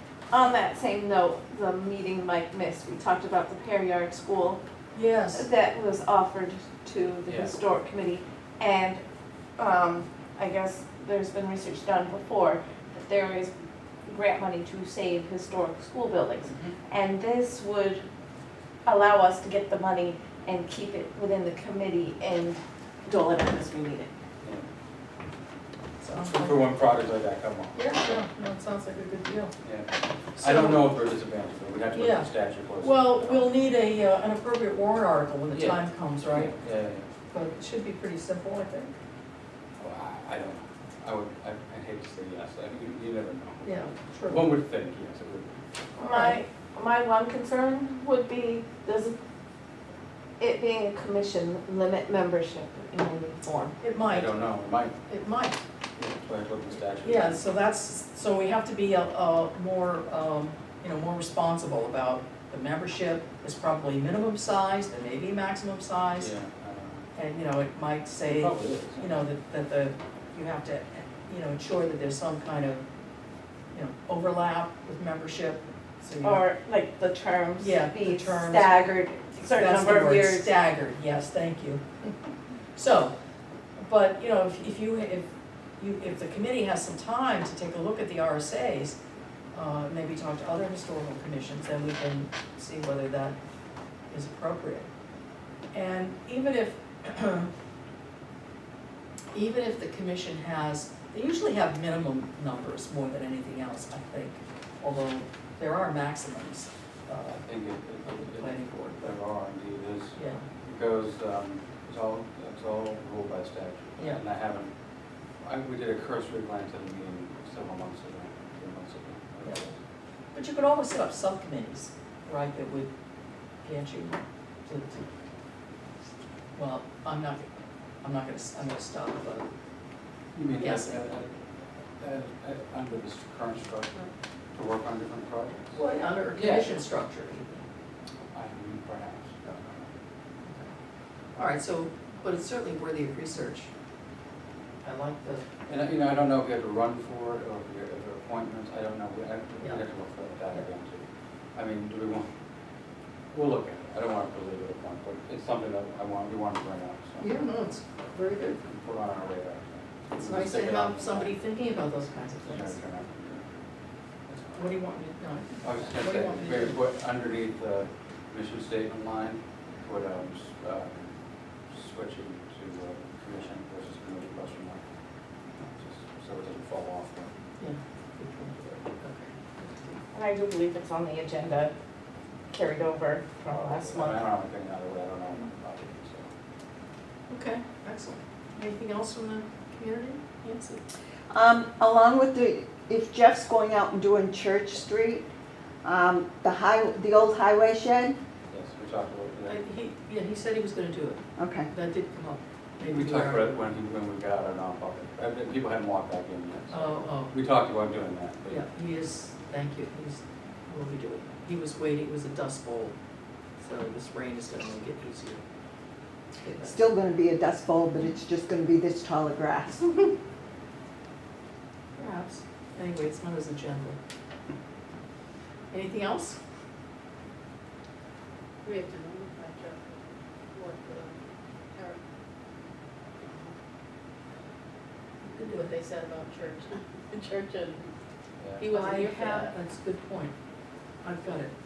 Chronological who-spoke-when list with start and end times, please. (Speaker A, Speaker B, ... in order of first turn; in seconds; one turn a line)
Speaker A: 0.3-4.6
Speaker B: 4.9-5.5
Speaker A: 5.3-9.0
Speaker C: 7.3-7.5
Speaker A: 9.6-13.5
Speaker A: 14.1-18.0
Speaker C: 16.5-16.8
Speaker A: 18.9-24.1
Speaker B: 26.0-26.7
Speaker C: 26.2-28.2
Speaker B: 27.8-29.5
Speaker C: 29.6-33.5
Speaker B: 30.4-30.9
Speaker B: 31.9-36.5
Speaker C: 35.5-37.1
Speaker B: 37.3-38.9
Speaker C: 39.8-45.5
Speaker B: 43.6-44.5
Speaker B: 46.0-46.4
Speaker A: 46.0-49.1
Speaker A: 50.4-53.8
Speaker B: 53.8-54.5
Speaker C: 54.1-55.0
Speaker B: 55.1-55.6
Speaker C: 56.0-57.4
Speaker B: 57.0-66.3
Speaker C: 66.2-67.1
Speaker B: 67.2-72.8
Speaker C: 68.2-69.2
Speaker B: 73.7-76.5
Speaker A: 76.2-80.5
Speaker B: 77.6-81.8
Speaker B: 82.8-83.1
Speaker B: 83.8-89.0
Speaker B: 89.5-93.4
Speaker B: 94.1-94.9
Speaker B: 95.7-97.5
Speaker B: 99.3-107.5
Speaker C: 107.4-114.7
Speaker B: 108.0-109.2
Speaker B: 110.2-110.5
Speaker C: 115.4-119.8
Speaker B: 120.3-122.9
Speaker B: 123.6-125.0
Speaker B: 126.5-127.5
Speaker B: 128.0-129.5
Speaker C: 130.3-135.8
Speaker B: 130.6-131.1
Speaker B: 135.7-137.6
Speaker C: 136.3-136.7
Speaker C: 138.3-139.8
Speaker B: 139.4-139.7
Speaker B: 140.5-140.7
Speaker B: 141.4-143.7
Speaker B: 144.8-145.5
Speaker C: 145.7-152.3
Speaker B: 149.6-149.8
Speaker C: 153.3-157.3
Speaker B: 157.2-158.6
Speaker C: 158.6-161.3
Speaker B: 160.1-162.8
Speaker C: 162.5-163.5
Speaker C: 164.3-164.7
Speaker B: 164.5-166.8
Speaker C: 165.6-171.1
Speaker C: 171.7-174.8
Speaker C: 175.6-177.3
Speaker B: 177.6-180.0
Speaker A: 180.1-181.7
Speaker A: 182.5-184.2
Speaker C: 183.5-186.3
Speaker B: 187.3-190.8
Speaker D: 191.3-195.3
Speaker D: 195.8-198.2
Speaker C: 198.5-199.6
Speaker B: 199.5-203.6
Speaker D: 201.4-201.7
Speaker C: 202.8-208.6
Speaker B: 206.7-207.3
Speaker B: 208.5-212.9
Speaker B: 213.6-215.4
Speaker B: 216.4-216.8
Speaker D: 216.6-220.1
Speaker B: 222.0-224.0
Speaker B: 225.7-226.4
Speaker E: 228.6-232.1
Speaker E: 233.2-233.6
Speaker B: 235.2-236.0
Speaker E: 235.6-237.9
Speaker E: 238.6-239.6
Speaker B: 238.7-240.3
Speaker B: 241.0-241.5